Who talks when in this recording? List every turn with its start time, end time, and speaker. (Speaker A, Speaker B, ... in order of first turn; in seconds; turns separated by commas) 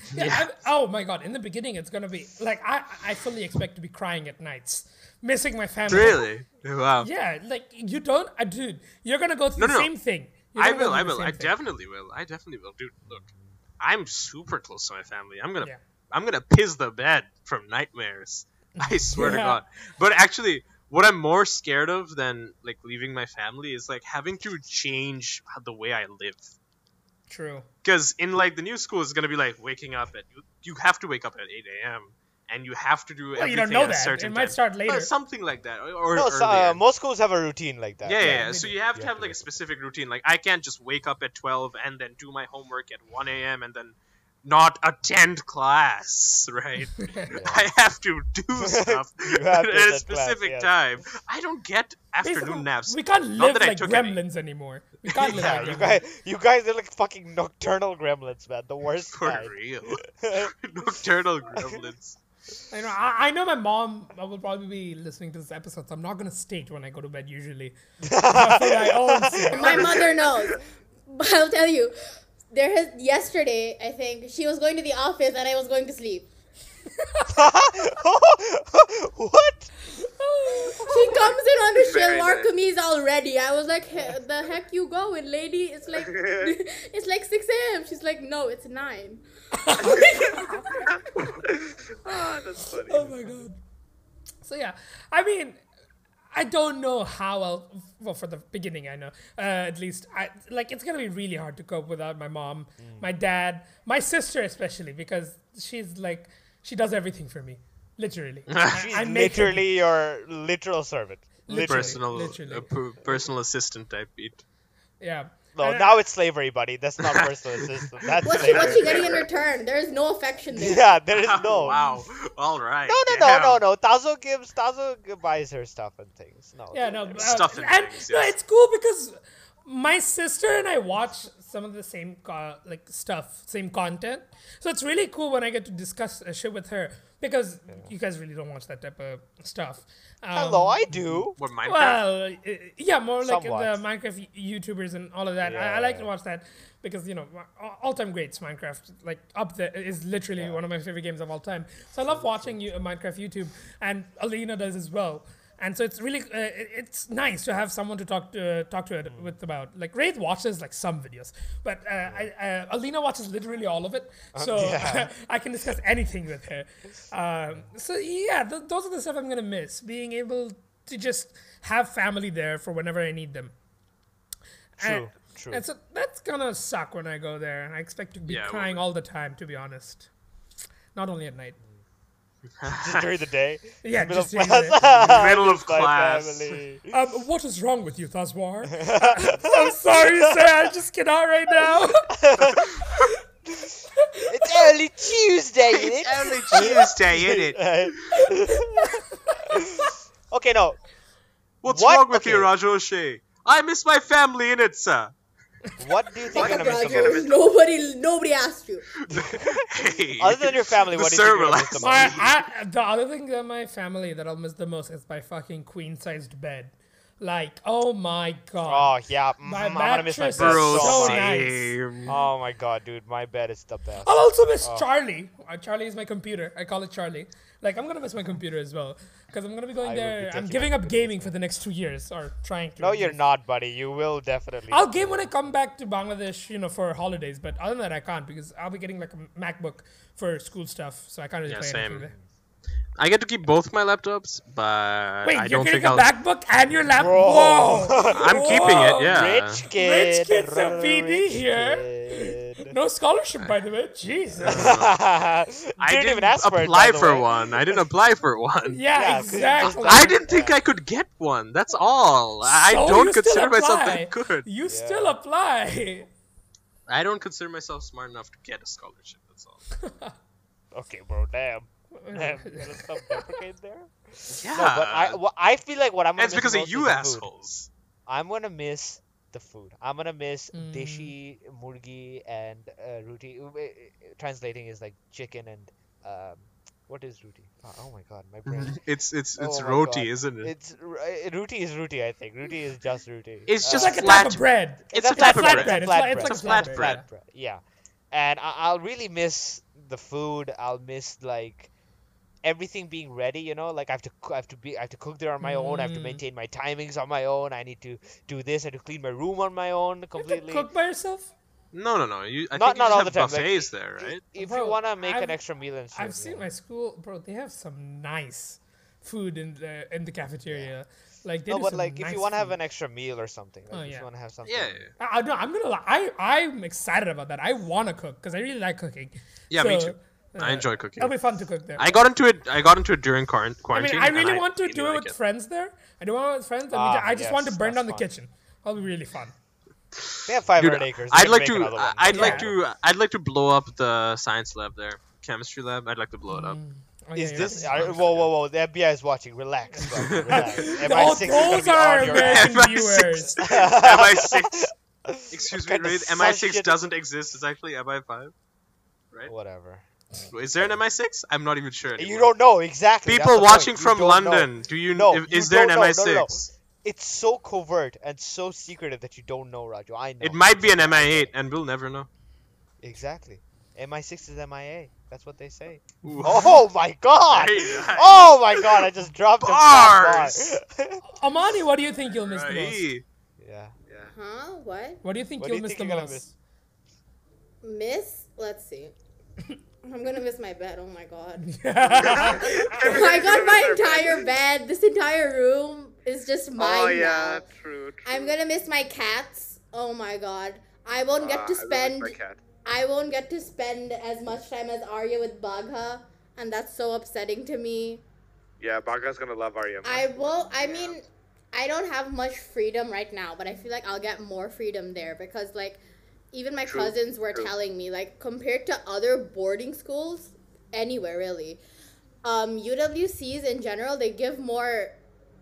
Speaker A: 0.1-6.2, Speaker B: 0.1-0.5, Speaker B: 5.9-7.1, Speaker A: 7.0-11.5, Speaker B: 9.6-9.9, Speaker B: 10.5-13.3, Speaker C: 13.1-13.5, Speaker B: 13.8-26.5, Speaker A: 18.8-19.6, Speaker A: 27.3-27.6, Speaker B: 27.8-36.8, Speaker A: 33.4-35.1, Speaker C: 36.1-39.4, Speaker B: 38.0-54.2, Speaker A: 38.2-38.8, Speaker A: 47.0-47.3, Speaker C: 47.3-47.6, Speaker C: 48.5-50.7, Speaker A: 52.2-56.0, Speaker B: 55.1-55.8, Speaker C: 55.2-60.5, Speaker B: 59.1-62.2, Speaker C: 61.5-61.8, Speaker A: 62.7-69.9, Speaker C: 68.0-70.5, Speaker D: 69.5-71.9, Speaker D: 72.5-76.3, Speaker A: 77.0-77.5, Speaker C: 77.3-79.7, Speaker A: 79.9-81.2, Speaker D: 80.8-89.2, Speaker C: 80.8-81.2, Speaker E: 81.7-82.5, Speaker E: 86.0-86.5, Speaker A: 89.5-90.9, Speaker D: 89.8-90.5, Speaker E: 90.9-93.2, Speaker A: 92.0-93.6, Speaker A: 94.4-95.6, Speaker A: 96.3-109.7, Speaker C: 102.8-103.1, Speaker B: 108.5-108.8, Speaker C: 108.7-112.0, Speaker A: 111.5-112.7, Speaker B: 111.6-114.4, Speaker A: 115.0-116.0, Speaker C: 115.5-119.2, Speaker B: 117.0-117.3, Speaker B: 118.0-118.9, Speaker D: 118.2-120.9, Speaker E: 118.7-119.2, Speaker C: 120.5-121.8, Speaker B: 121.1-123.6, Speaker A: 121.7-122.0, Speaker C: 122.8-127.4, Speaker A: 126.7-173.5, Speaker B: 127.1-128.3, Speaker C: 140.3-141.3, Speaker B: 141.3-142.0, Speaker C: 143.2-143.8, Speaker C: 145.4-146.1, Speaker C: 150.3-150.6, Speaker C: 152.1-152.7, Speaker C: 159.1-159.3, Speaker C: 162.0-162.3, Speaker C: 164.3-165.1, Speaker C: 174.8-175.6, Speaker A: 174.8-180.1, Speaker B: 178.3-178.8, Speaker A: 180.9-181.6, Speaker B: 182.6-183.1, Speaker C: 182.6-186.9, Speaker A: 183.8-184.8, Speaker B: 184.8-186.6, Speaker A: 186.9-192.2, Speaker C: 188.7-190.5, Speaker C: 192.1-192.9, Speaker B: 192.5-193.1, Speaker C: 193.5-200.8, Speaker A: 194.1-194.7, Speaker B: 195.7-198.2, Speaker B: 201.6-205.1, Speaker C: 201.6-202.5, Speaker C: 205.8-207.2, Speaker D: 206.3-208.9, Speaker E: 206.4-207.3, Speaker B: 209.0-212.2, Speaker C: 209.1-212.3, Speaker A: 211.8-221.7, Speaker C: 218.6-221.4, Speaker B: 220.3-222.2, Speaker C: 222.1-224.8, Speaker A: 224.0-233.2, Speaker C: 229.8-231.3, Speaker C: 232.8-235.3, Speaker A: 234.7-242.1, Speaker B: 241.5-242.1, Speaker B: 243.0-246.1, Speaker A: 245.2-249.2, Speaker C: 246.9-252.7, Speaker B: 248.1-249.6, Speaker A: 249.7-254.7, Speaker B: 254.4-254.9, Speaker C: 254.4-257.8, Speaker B: 255.8-258.8, Speaker A: 258.7-260.1, Speaker C: 258.9-260.6, Speaker B: 259.6-264.4, Speaker A: 262.4-266.1, Speaker C: 264.7-265.2, Speaker B: 266.9-269.6, Speaker A: 269.8-270.1, Speaker C: 270.7-277.3, Speaker A: 271.9-273.4, Speaker B: 274.3-275.2, Speaker B: 276.2-277.7, Speaker C: 278.1-288.8, Speaker A: 280.5-281.1, Speaker B: 288.4-290.5, Speaker C: 289.4-294.1, Speaker B: 293.5-297.0, Speaker A: 293.7-297.1, Speaker C: 294.9-301.7, Speaker C: 302.4-310.7, Speaker A: 305.4-306.2, Speaker A: 310.2-311.3, Speaker B: 311.7-314.2, Speaker C: 312.5-316.4, Speaker A: 314.4-315.4, Speaker A: 315.9-322.5, Speaker C: 321.5-324.8, Speaker A: 323.7-324.1, Speaker B: 324.4-324.9, Speaker A: 325.0-332.0, Speaker B: 329.5-331.1, Speaker B: 331.8-335.1, Speaker A: 333.7-339.3, Speaker C: 336.7-338.1, Speaker B: 340.0-346.6, Speaker C: 340.2-342.6, Speaker A: 342.1-342.5, Speaker A: 346.3-348.1, Speaker C: 347.1-352.6, Speaker B: 347.4-348.2, Speaker A: 349.7-353.4, Speaker B: 349.9-350.7, Speaker B: 352.0-354.7, Speaker C: 353.4-356.8, Speaker B: 355.3-358.3, Speaker C: 359.3-359.8, Speaker B: 360.3-362.3, Speaker C: 361.9-371.3, Speaker B: 363.1-366.4, Speaker B: 370.2-372.1, Speaker C: 372.8-381.0, Speaker B: 376.0-376.6, Speaker B: 377.3-380.5, Speaker A: 381.1-382.9, Speaker B: 382.2-383.0, Speaker C: 383.4-383.7, Speaker D: 384.1-385.0, Speaker A: 385.0-386.3, Speaker C: 385.4-386.3, Speaker D: 387.6-388.9, Speaker D: 389.8-397.5, Speaker A: 391.4-393.0, Speaker E: 391.9-394.2, Speaker E: 396.6-398.3, Speaker D: 398.0-408.0, Speaker E: 401.2-402.4, Speaker E: 408.6-411.0, Speaker D: 409.8-415.8, Speaker D: 416.3-421.6, Speaker E: 416.6-417.5, Speaker D: 422.2-424.9